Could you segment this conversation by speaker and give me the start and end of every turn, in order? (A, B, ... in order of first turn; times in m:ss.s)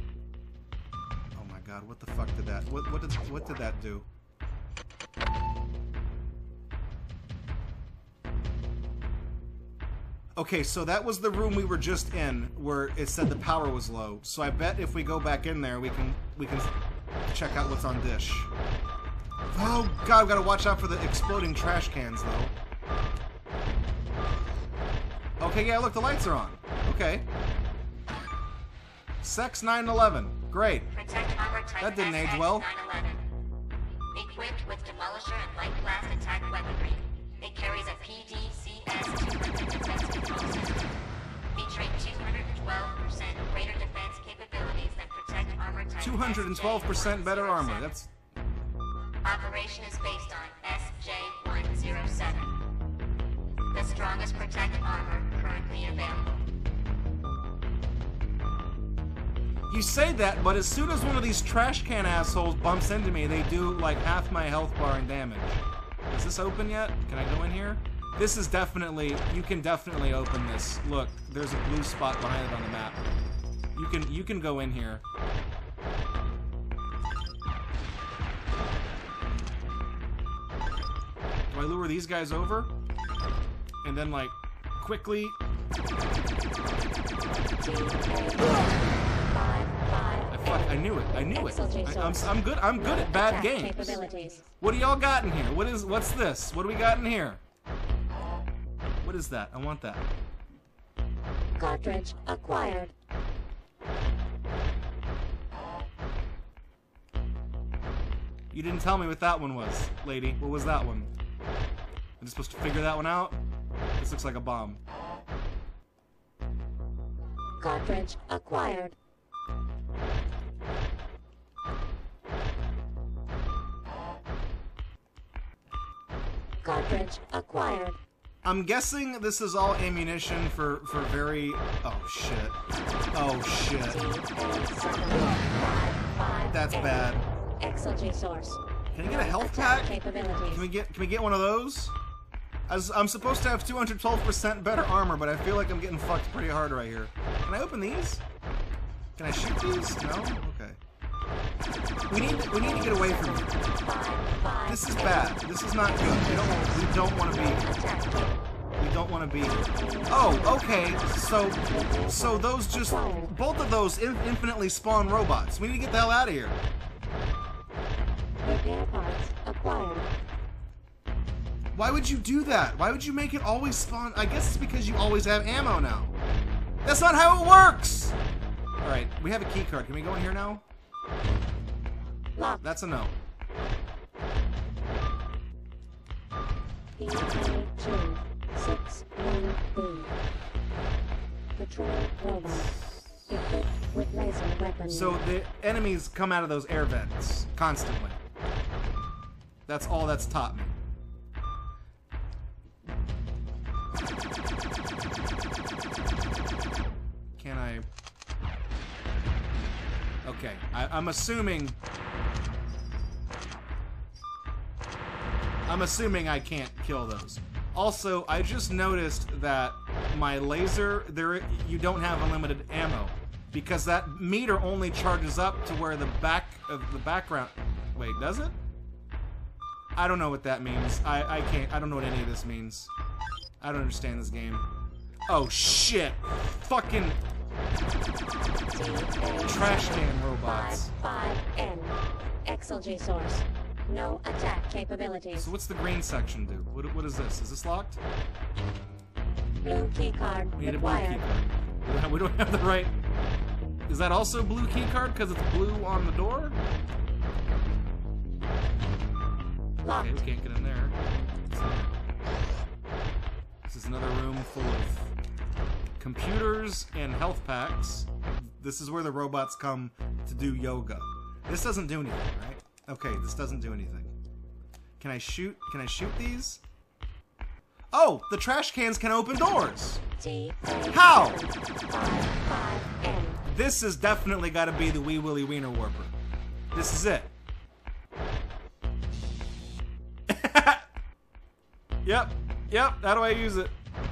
0:01.3-0:04.1 A
0:10.4-0:16.7 A
0:17.3-0:18.5 A
0:19.5-0:22.5 A
0:25.4-0:27.2 A
0:29.2-0:30.9 A
0:30.9-0:33.2 B
0:31.8-0:32.6 A
0:34.1-0:41.0 B
0:41.5-0:48.0 B
0:46.0-0:48.1 A
0:49.2-0:52.6 B
0:53.7-0:56.4 B
0:59.7-1:13.0 A
1:13.7-1:15.0 A
1:21.5-1:22.7 A
1:23.8-1:25.4 A
1:27.5-1:34.5 C
1:30.3-1:34.0 A
1:34.6-1:37.4 A
1:39.0-1:40.1 A
1:41.6-1:42.9 C
1:48.5-1:51.1 A
1:52.2-1:53.4 A
1:54.0-1:54.8 A
1:57.6-1:59.0 C
2:06.6-2:08.0 C
2:08.4-2:12.6 A
2:13.1-2:14.0 A
2:13.9-2:17.1 C
2:16.5-2:17.2 A
2:17.6-2:20.6 C
2:18.9-2:21.9 A
2:22.7-2:28.2 A
2:29.2-2:30.8 A
2:32.1-2:33.5 A
2:32.1-2:35.3 C
2:34.7-2:37.6 A
2:35.9-2:38.4 C
2:38.8-2:46.6 A
2:39.4-2:40.6 C
2:41.6-2:43.3 C
2:48.4-2:50.1 C
2:51.7-2:56.2 A
2:56.8-2:58.2 A
2:58.8-3:00.6 A
3:02.4-3:02.7 C
3:02.6-3:03.1 A
3:07.0-3:10.1 C
3:11.6-3:15.2 C
3:12.5-3:13.1 A
3:14.9-3:18.2 A
3:19.7-3:20.8 A
3:27.4-3:27.9 A
3:30.2-3:31.8 A
3:35.7-3:48.6 A
3:50.0-3:52.9 A
3:53.6-3:54.7 A
3:55.3-3:57.2 A
3:58.7-4:05.5 C
3:59.4-4:00.9 A
4:05.4-4:08.0 A
4:09.6-4:11.2 C
4:10.6-4:12.9 A
4:13.9-4:16.6 A
4:19.8-4:20.1 C
4:19.9-4:21.0 A
4:21.5-4:21.9 A
4:23.6-4:25.1 A
4:26.0-4:34.1 A
4:35.0-4:36.6 A
4:37.9-4:40.0 A
4:40.2-4:43.4 C
4:40.9-4:41.4 A
4:43.4-4:46.1 A
4:46.7-4:47.3 A
4:50.3-4:50.8 A
4:52.0-4:53.7 A